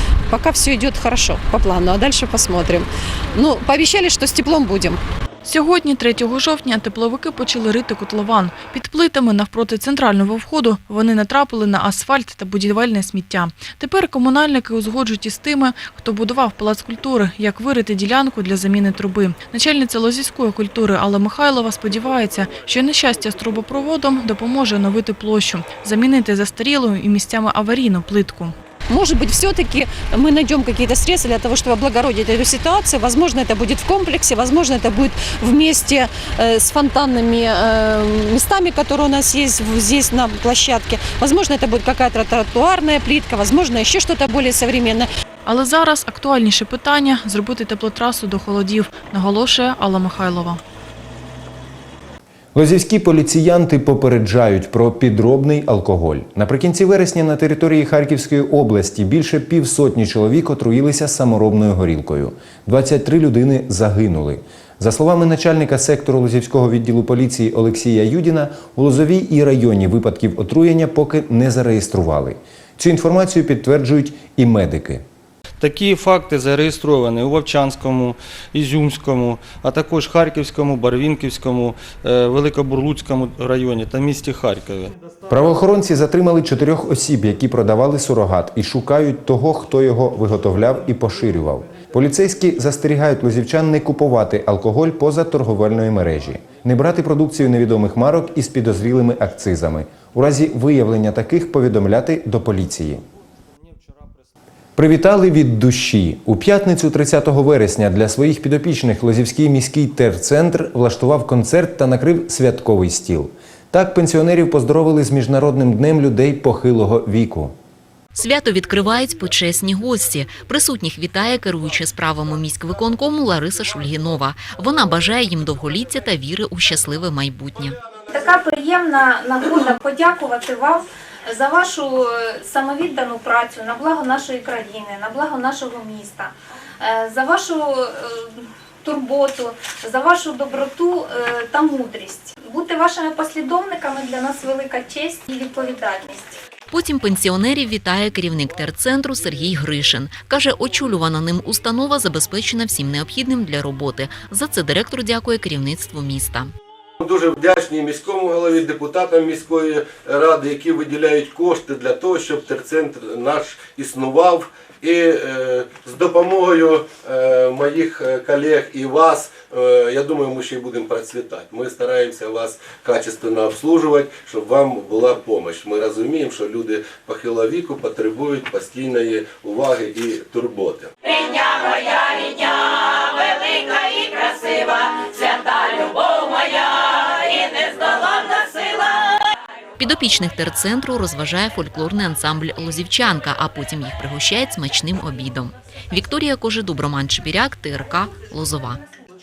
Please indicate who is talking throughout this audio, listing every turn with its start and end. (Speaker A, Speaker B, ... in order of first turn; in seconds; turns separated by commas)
Speaker A: 0.3-5.0, Speaker B: 5.4-28.5, Speaker A: 28.9-45.1, Speaker B: 45.5-50.6, Speaker C: 52.5-75.0, Speaker D: 75.6-84.9, Speaker C: 85.3-103.0, Speaker C: 104.8-117.5, Speaker E: 118.1-127.8, Speaker F: 128.1-146.4, Speaker E: 146.7-156.5, Speaker G: 157.0-180.9, Speaker F: 181.3-182.2, Speaker F: 184.2-185.3, Speaker E: 189.8-198.8